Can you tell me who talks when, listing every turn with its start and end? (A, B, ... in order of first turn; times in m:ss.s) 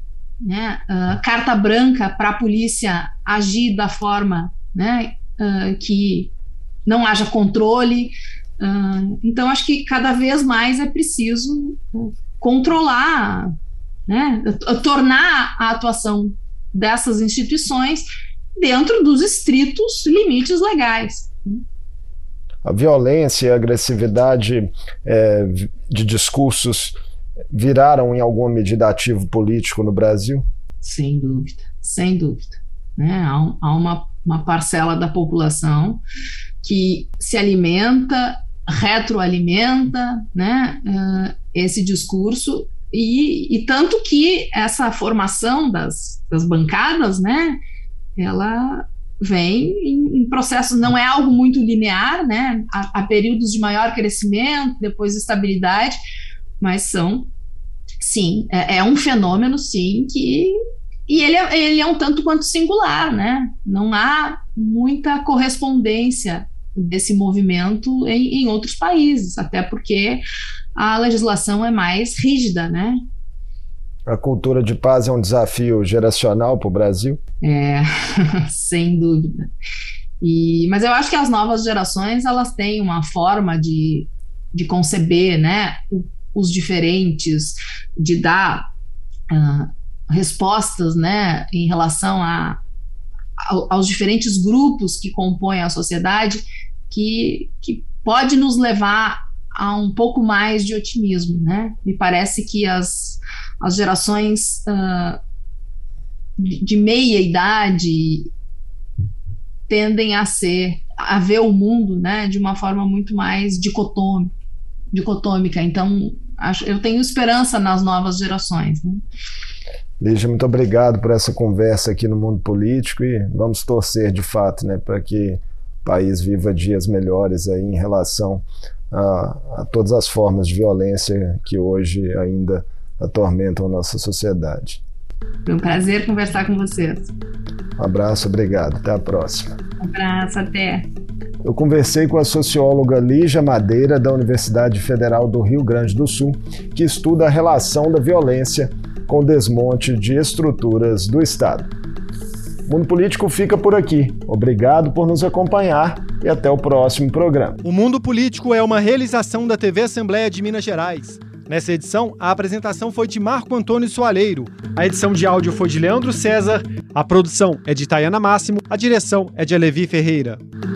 0:00.4-0:06.3 A
0:06.8-0:13.5 A
0:14.1-0:18.0 A
0:18.6-0:21.6 A
0:22.6-0:26.9 B
0:27.5-0:30.4 B
0:30.8-0:36.0 A
0:36.6-0:47.6 A
0:48.2-0:56.0 A
0:56.6-0:57.3 A
0:58.0-1:00.5 A
1:01.1-1:10.2 A
1:10.7-1:13.0 A
1:14.0-1:17.2 B
1:17.4-1:19.5 A
1:20.2-1:28.7 A
1:29.3-1:32.6 A
1:33.4-1:45.2 A
1:46.4-1:48.3 A
1:49.7-1:54.3 A
1:54.9-1:59.0 A
2:00.0-2:14.8 B
2:15.4-2:17.1 A
2:17.8-2:19.5 B
2:19.8-2:20.9 A
2:21.4-2:31.7 B
2:32.7-2:37.6 B
2:37.6-2:50.4 C